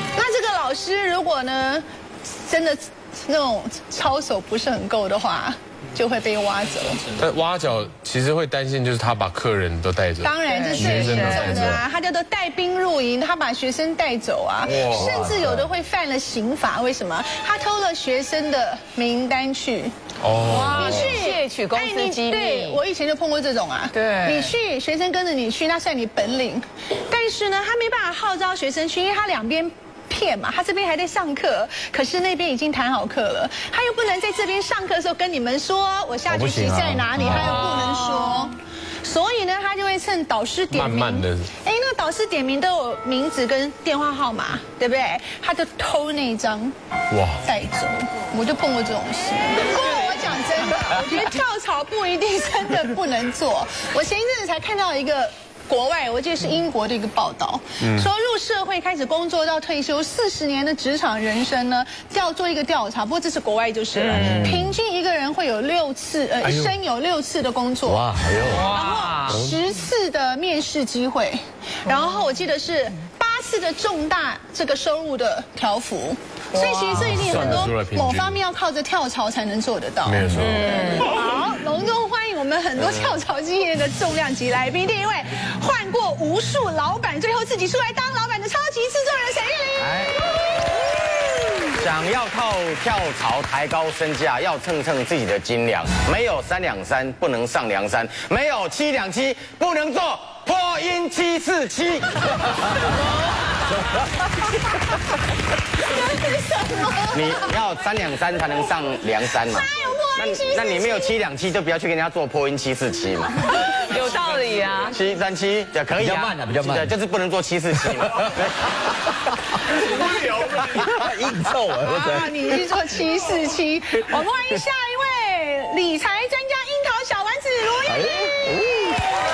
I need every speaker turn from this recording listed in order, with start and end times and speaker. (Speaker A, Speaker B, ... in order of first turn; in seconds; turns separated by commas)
Speaker A: 0.1-7.2, Speaker B: 7.2-11.8, Speaker A: 10.2-19.9, Speaker C: 10.5-11.6, Speaker D: 10.8-11.8, Speaker E: 14.7-15.4, Speaker B: 14.9-15.4, Speaker B: 20.2-21.2, Speaker C: 20.4-22.8, Speaker A: 20.7-46.7, Speaker C: 23.9-24.5, Speaker D: 36.3-37.8, Speaker B: 37.2-38.1, Speaker B: 40.7-41.5, Speaker B: 47.1-47.5, Speaker A: 47.4-68.0, Speaker B: 57.8-58.1, Speaker C: 63.9-64.6, Speaker D: 64.1-64.5, Speaker B: 64.2-64.7, Speaker B: 66.4-66.8, Speaker D: 67.9-68.7, Speaker C: 68.5-69.4, Speaker A: 68.7-89.9, Speaker B: 69.3-69.6, Speaker C: 76.5-76.9, Speaker B: 76.9-78.5, Speaker B: 80.0-80.8, Speaker C: 80.4-81.1, Speaker E: 89.8-90.1, Speaker E: 91.7-102.8, Speaker A: 106.6-107.2, Speaker E: 107.1-113.8, Speaker A: 109.4-111.1, Speaker C: 113.8-115.0, Speaker E: 114.9-118.7, Speaker D: 116.0-116.9, Speaker D: 120.7-122.5, Speaker A: 121.8-128.3, Speaker D: 127.9-129.0